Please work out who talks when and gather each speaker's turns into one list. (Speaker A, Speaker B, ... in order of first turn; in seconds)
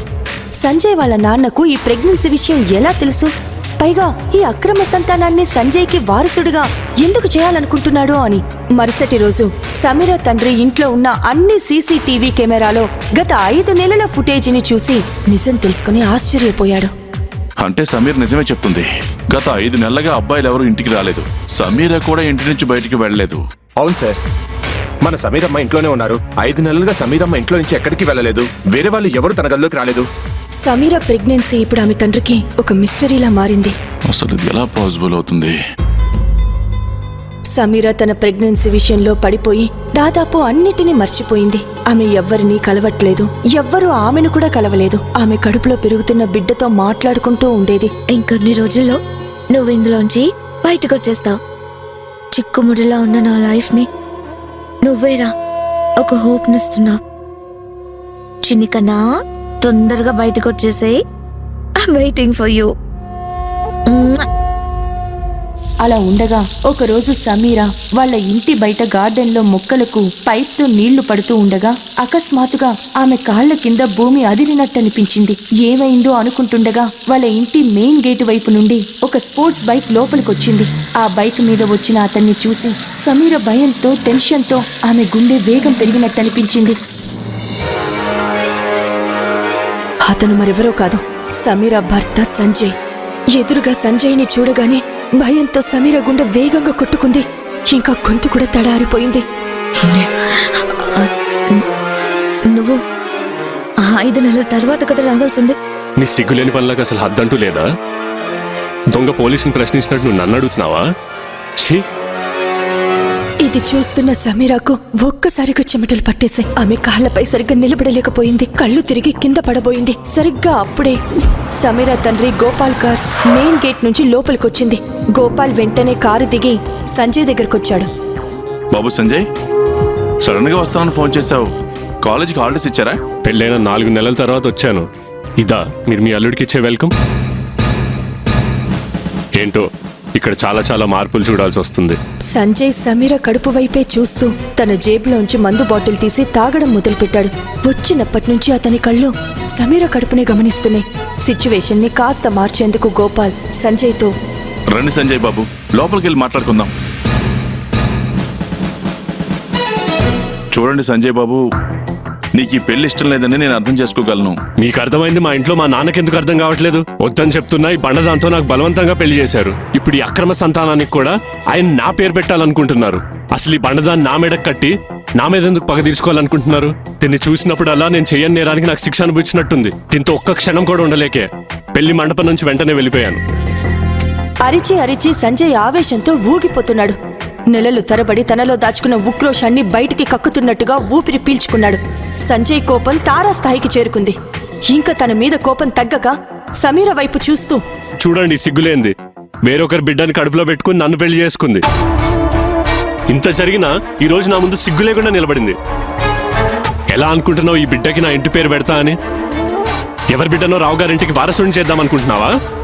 Speaker A: 0.6-16.9, 30.6-33.8, 37.5-47.9, 65.8-86.8, 90.1-92.7, 93.4-99.2, 113.4-121.0, 121.6-127.9, 142.3-154.1, 184.4-187.0, 187.5-194.2, 194.7-197.6
Speaker B: 17.6-23.4, 34.1-35.6, 128.7-129.3, 130.2-131.5, 132.0-133.0, 154.7-156.7, 160.5-161.4, 162.3-164.4
Speaker C: 23.8-24.2, 25.0-30.1
Speaker D: 48.1-49.0, 49.5-51.4, 52.3-53.9, 54.8-55.3, 56.0-57.0, 58.5-59.0, 59.6-61.0, 61.8-62.7, 63.9-64.3, 99.8-101.7, 102.5-102.8, 103.8-105.6
Speaker E: 106.0-107.7, 108.9-110.8, 133.3-134.9, 135.4-136.9, 139.4-139.6, 140.2-142.0, 164.6-183.2, 198.0-198.9, 199.5-201.6, 203.1-205.6, 206.9-209.0, 210.1-212.3